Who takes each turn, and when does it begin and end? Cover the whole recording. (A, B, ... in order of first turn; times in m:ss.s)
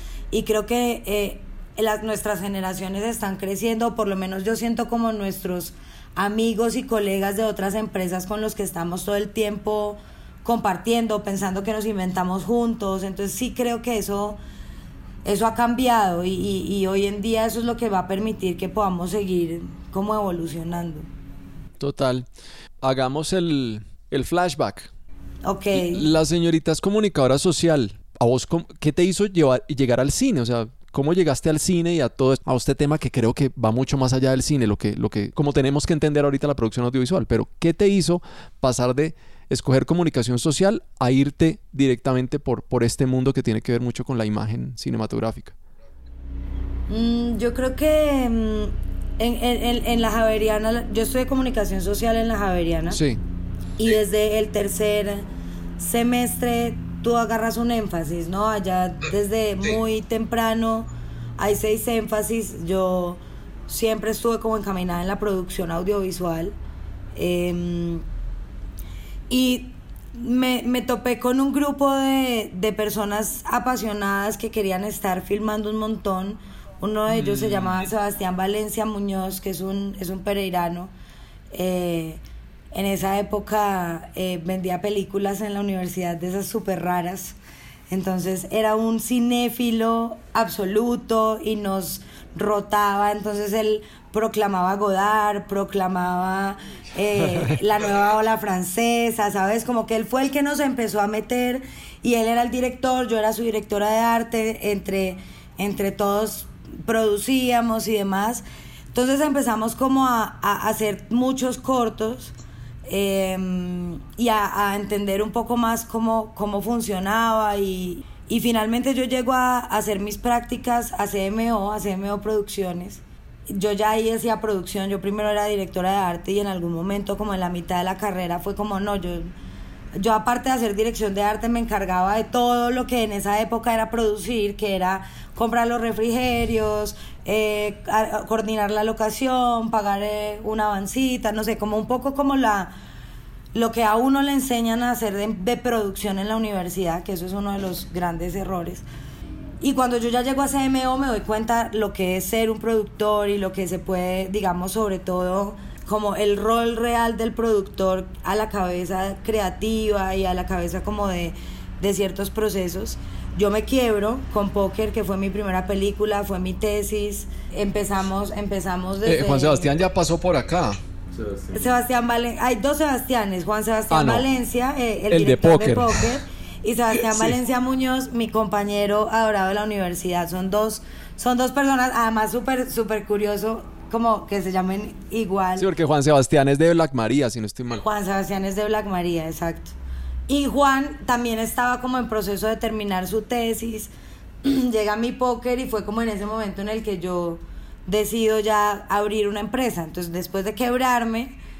0:00.3-0:14.4 A
0:15.2-0:21.0 A
0:21.8-0:22.2 B
0:22.8-0:24.9 B
0:25.4-0:26.1 A
0:25.7-0:45.6 B
0:46.9-0:53.0 A
0:52.9-0:53.2 B
0:53.8-0:55.3 A
0:55.8-1:06.6 A
1:07.1-1:08.0 A
1:09.3-1:20.9 A
1:17.1-1:17.8 B
1:21.5-1:22.2 A
1:22.7-1:27.4 A
1:27.9-1:52.3 A
1:52.9-2:09.3 A
2:10.0-2:22.7 A
2:23.5-2:28.8 A
2:29.6-2:49.7 A
2:49.0-2:51.5 B
2:51.5-3:05.7 A
2:53.9-2:54.2 B
2:55.1-2:56.0 B
2:57.1-2:57.4 B
3:05.6-3:07.8 B
3:07.7-3:09.7 A
3:10.3-3:13.9 A
3:14.4-3:21.4 A